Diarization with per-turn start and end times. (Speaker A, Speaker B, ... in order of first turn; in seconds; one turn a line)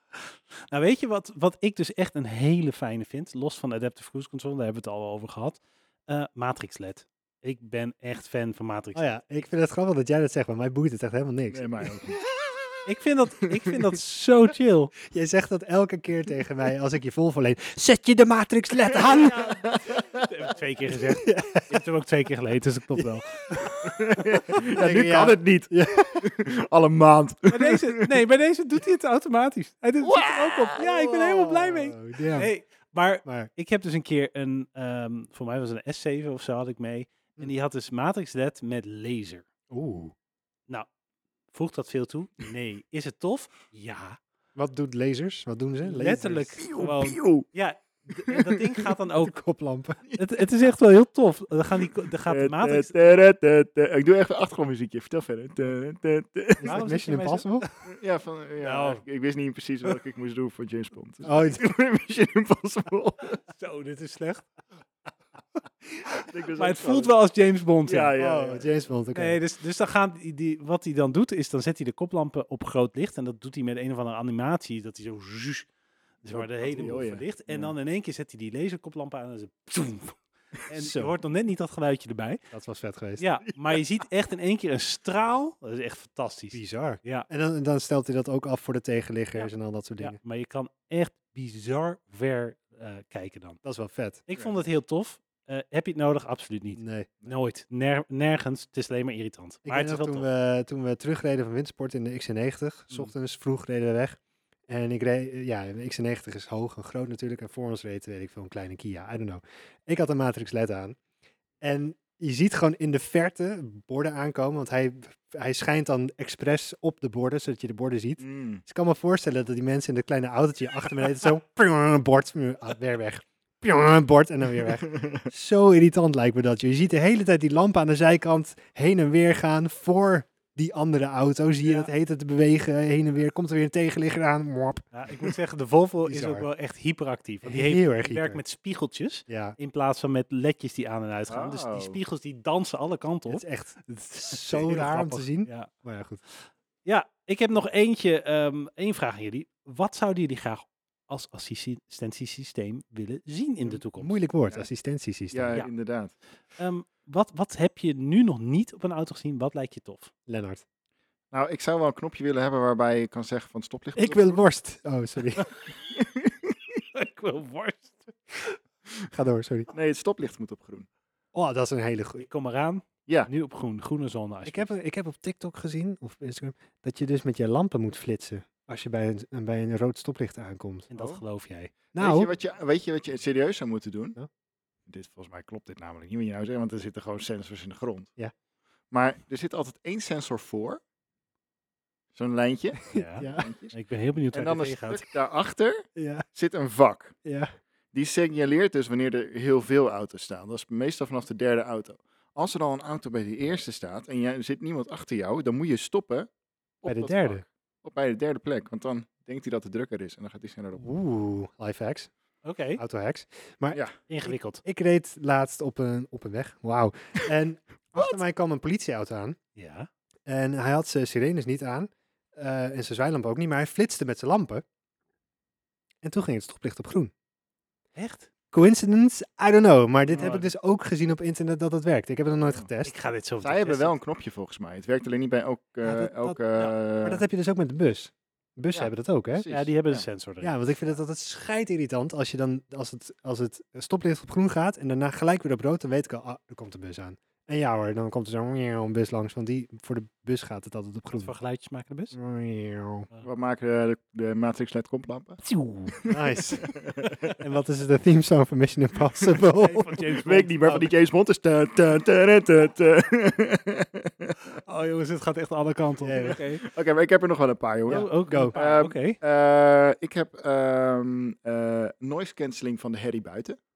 Speaker A: 0.2-9.0
Speaker B: 8.9-11.9
Speaker C: 11.5-12.2
Speaker A: 12.8-14.9
Speaker B: 15.1-19.6
Speaker C: 19.0-20.2
Speaker A: 20.2-23.4
Speaker B: 21.1-21.8
Speaker B: 22.9-26.2
Speaker C: 23.8-28.1
Speaker A: 27.5-39.4
Speaker C: 30.0-30.9
Speaker B: 31.1-32.5
Speaker B: 33.2-33.5
Speaker B: 39.7-40.1
Speaker A: 41.5-44.2
Speaker B: 44.5-46.5
Speaker A: 45.8-49.4
Speaker C: 46.6-47.5
Speaker C: 48.3-48.8
Speaker B: 49.2-50.0
Speaker A: 50.1-53.1
Speaker C: 52.3-56.8
Speaker B: 56.6-57.6
Speaker A: 56.6-57.8
Speaker C: 57.8-63.4
Speaker A: 58.6-59.0
Speaker B: 61.2-61.6
Speaker A: 63.5-64.5
Speaker A: 66.1-68.1
Speaker C: 66.2-67.1
Speaker C: 67.8-68.7
Speaker B: 68.2-69.4
Speaker A: 69.1-75.7
Speaker A: 76.2-82.4
Speaker C: 76.3-77.7
Speaker B: 80.7-81.1
Speaker B: 82.5-83.2
Speaker A: 83.2-87.3
Speaker B: 86.5-90.2
Speaker A: 89.3-93.6
Speaker B: 93.6-94.2
Speaker A: 94.3-100.2
Speaker C: 94.3-94.6
Speaker B: 96.8-97.1
Speaker B: 99.6-111.0
Speaker B: 111.6-134.8
Speaker C: 118.2-118.6
Speaker C: 124.8-125.2
Speaker A: 134.9-143.4
Speaker B: 136.0-136.5
Speaker B: 137.4-138.4
Speaker B: 139.3-139.6
Speaker C: 141.3-142.0
Speaker B: 143.3-146.2
Speaker A: 144.3-145.7
Speaker A: 146.3-154.2
Speaker B: 154.0-155.6
Speaker C: 155.3-156.1
Speaker A: 156.6-160.1
Speaker B: 160.3-160.6
Speaker C: 161.3-164.4
Speaker B: 163.9-165.5
Speaker C: 165.9-166.5
Speaker A: 166.9-168.6
Speaker B: 169.1-169.7
Speaker C: 169.7-170.9
Speaker B: 171.3-172.3
Speaker A: 172.2-174.7
Speaker B: 174.4-181.2
Speaker A: 180.9-181.7
Speaker B: 181.9-182.3
Speaker C: 181.9-184.2
Speaker C: 184.9-188.1
Speaker C: 188.9-190.8
Speaker C: 192.1-193.7
Speaker A: 192.9-195.0
Speaker B: 192.9-193.5
Speaker C: 194.3-197.1
Speaker B: 195.9-196.2
Speaker B: 197.2-197.5
Speaker C: 197.9-206.3
Speaker C: 206.8-210.9
Speaker B: 206.9-207.4
Speaker B: 210.8-212.1
Speaker A: 212.4-212.8
Speaker B: 212.8-219.4
Speaker A: 214.1-214.6
Speaker A: 219.6-219.9
Speaker B: 220.3-224.6
Speaker B: 226.0-227.1
Speaker A: 227.9-228.3
Speaker B: 228.5-232.9
Speaker C: 230.1-230.4
Speaker A: 230.1-230.5
Speaker A: 232.8-233.9
Speaker C: 233.4-237.2
Speaker B: 235.8-236.4
Speaker B: 237.0-239.4
Speaker C: 238.7-240.0
Speaker A: 239.5-240.6
Speaker B: 240.4-251.3
Speaker A: 251.1-252.2
Speaker B: 252.1-253.1
Speaker C: 253.2-256.2
Speaker A: 255.4-256.0
Speaker B: 256.1-256.8
Speaker C: 256.7-257.4
Speaker B: 257.4-259.9
Speaker A: 259.5-260.8
Speaker C: 260.2-264.6
Speaker A: 264.6-266.6
Speaker B: 266.0-266.4
Speaker C: 266.4-273.6
Speaker B: 267.9-268.5
Speaker A: 267.9-269.2